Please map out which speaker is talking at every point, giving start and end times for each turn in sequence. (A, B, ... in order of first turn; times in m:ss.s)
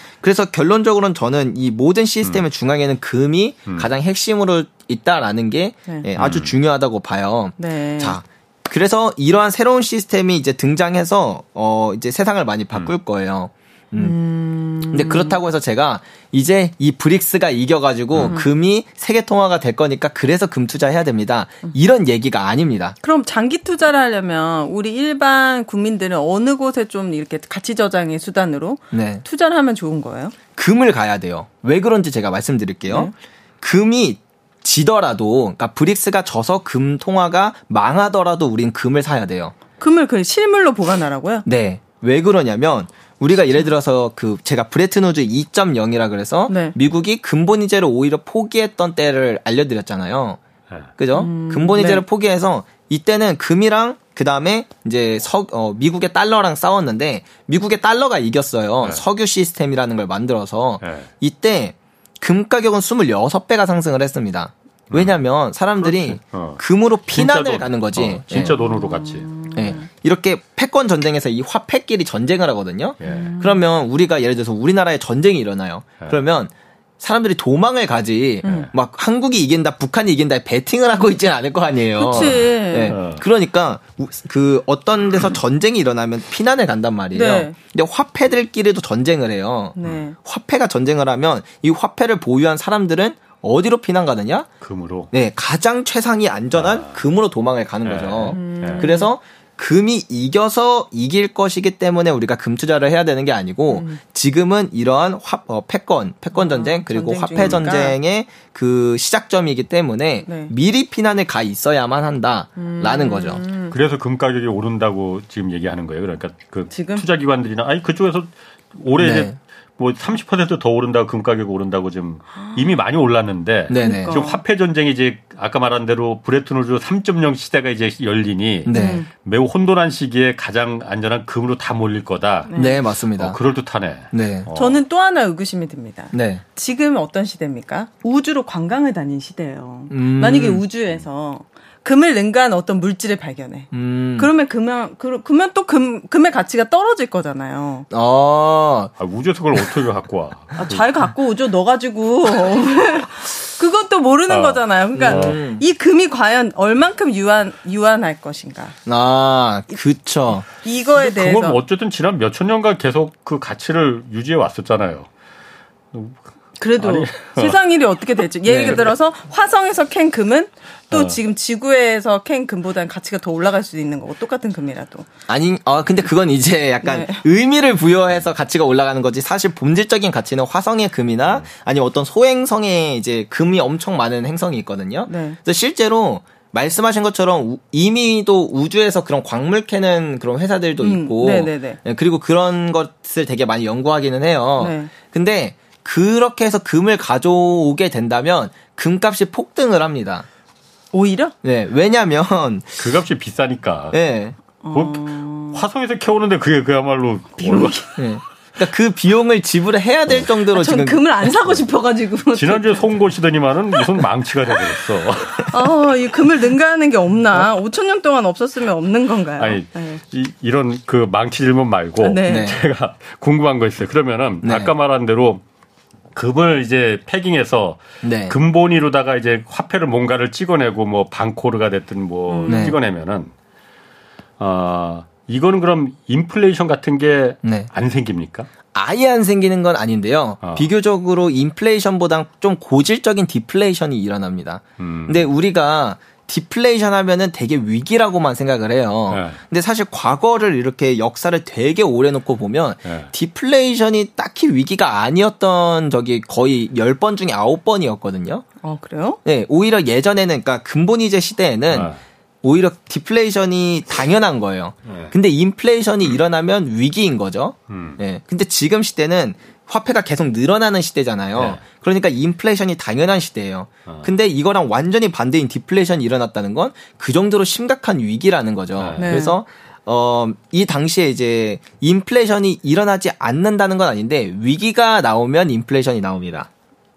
0:00.2-0:14.1 A
0:06.2-0:06.5 B
0:07.6-0:08.2 C
0:14.0-0:15.4 C
0:14.9-0:23.0 A
0:18.2-0:18.5 C
0:23.0-0:30.3 C
0:28.9-0:29.2 A
0:30.6-0:39.5 A
0:39.8-0:41.5 C
0:41.4-0:50.4 A
0:46.5-0:46.7 C
0:51.0-1:08.6 A
0:51.1-0:52.0 C
1:00.8-1:01.1 B
1:04.9-1:05.2 B
1:05.8-1:09.3 B
1:08.4-1:09.8 C
1:09.5-1:34.5 A
1:13.0-1:13.3 B
1:13.0-1:13.6 C
1:18.4-1:18.7 C
1:22.0-1:23.0 C
1:22.1-1:23.2 B
1:27.1-1:27.6 C
1:29.8-1:30.1 C
1:34.6-1:35.1 B
1:35.1-1:53.4 A
1:36.5-1:37.0 B
1:37.8-1:38.9 B
1:38.3-1:39.1 C
1:43.7-1:44.0 C
1:46.3-1:48.0 C
1:47.4-1:47.6 B
1:50.2-1:50.5 C
1:52.6-1:53.7 C
1:53.7-2:12.5 B
1:56.7-1:57.0 C
1:59.0-1:59.3 A
2:03.7-2:04.2 A
2:03.7-2:04.4 C
2:08.6-2:09.0 A
2:08.7-2:09.1 C
2:12.5-2:12.8 C
2:12.5-2:13.4 A
2:13.1-2:14.8 B
2:14.1-2:14.5 A
2:14.5-2:27.9 C
2:16.1-2:16.4 A
2:19.9-2:20.6 A
2:23.7-2:24.3 A
2:27.9-2:28.9 A
2:29.0-2:30.8 B
2:30.6-2:38.8 C
2:34.3-2:35.4 B
2:34.9-2:35.6 A
2:38.8-2:40.4 A
2:40.6-2:41.6 C
2:41.0-2:45.1 B
2:45.9-2:46.2 B
2:46.6-2:55.1 C
2:46.8-2:47.6 B
2:48.4-2:48.9 A
2:50.9-2:51.2 B
2:55.3-3:20.2 A
2:56.8-2:57.2 C
3:05.1-3:05.4 C
3:10.8-3:11.8 C
3:14.6-3:14.9 C
3:20.9-3:21.3 C
3:21.4-3:22.9 A
3:22.8-3:24.0 B
3:23.9-3:24.3 A
3:24.6-3:25.6 C
3:24.7-3:27.8 B
3:27.4-3:28.0 C
3:28.0-3:31.0 A
3:30.5-3:33.0 C
3:32.3-3:35.7 B
3:35.5-3:40.0 C
3:39.4-3:45.4 B
3:42.0-3:42.6 C
3:42.3-3:42.6 A
3:44.4-3:44.7 A
3:46.1-3:53.3 B
3:48.0-3:48.3 A
3:52.3-3:52.7 C
3:52.5-3:52.8 A
3:54.4-3:58.5 B
3:57.4-3:57.7 A
3:58.7-4:18.4 A
4:00.4-4:00.7 B
4:04.8-4:05.3 B
4:09.1-4:09.4 B
4:18.6-4:19.2 C
4:19.2-4:21.9 A
4:21.7-4:22.0 B
4:22.4-4:46.5 A
4:24.8-4:25.1 B
4:27.7-4:28.0 B
4:31.3-4:31.6 B
4:33.9-4:34.1 B
4:38.8-4:39.3 B
4:39.0-4:39.4 C